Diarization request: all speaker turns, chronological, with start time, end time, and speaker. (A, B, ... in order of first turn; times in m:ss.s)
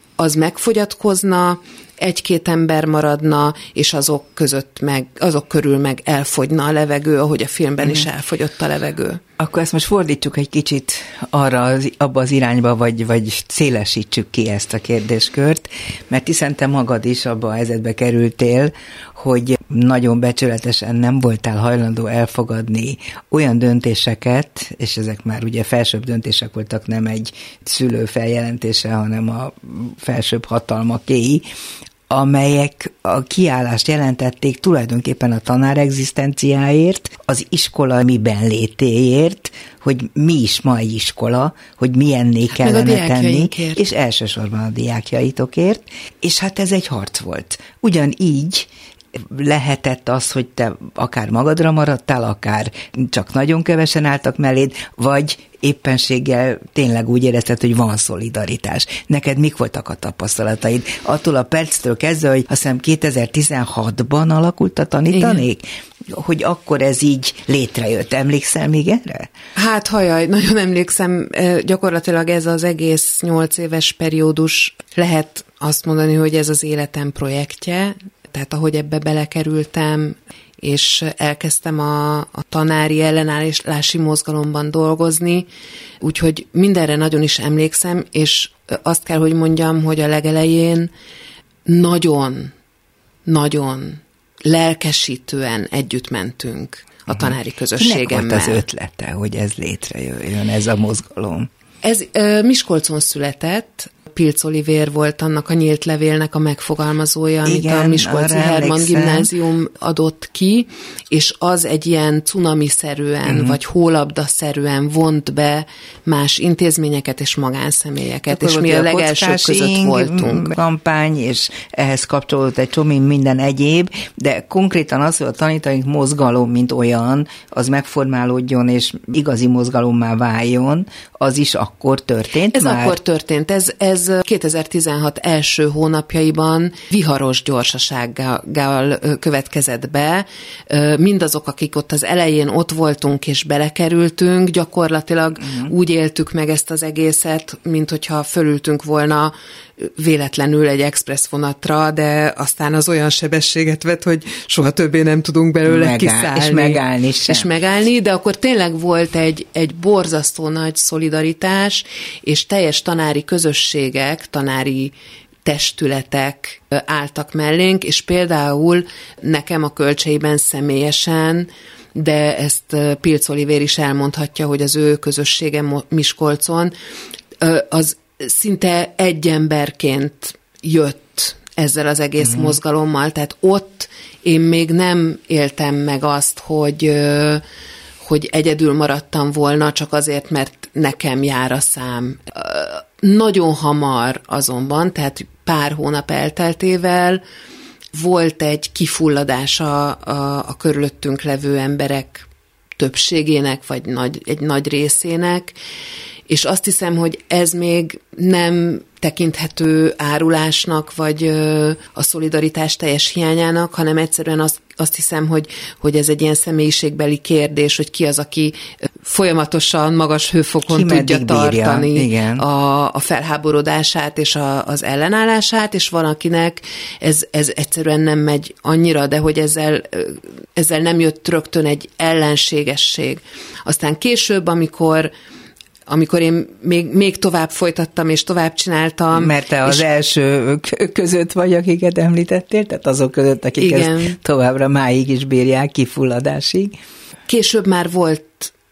0:00.2-0:09.2 A
0:09.4-0:31.4 B
0:32.1-1:09.3 B
0:42.5-0:43.8 A
1:05.1-1:05.4 A
1:09.6-1:25.5 A
1:26.0-1:30.9 A
1:31.7-1:32.5 A
1:33.3-1:38.6 A
1:37.1-1:41.5 B
1:41.8-2:00.6 A
1:47.4-1:49.3 B
1:53.3-1:53.6 B
1:58.3-2:13.0 B
2:12.5-2:44.9 A
2:25.4-2:25.7 B
2:35.7-2:37.5 B
2:45.4-2:56.7 A
2:57.4-3:07.4 A
3:08.0-3:17.2 A
3:17.9-3:22.3 A
3:22.8-3:25.6 A
3:26.3-3:55.1 A
3:40.7-3:42.4 B
3:55.9-3:59.8 A
3:59.1-4:06.8 B
4:03.6-4:04.2 A
4:07.3-4:08.5 A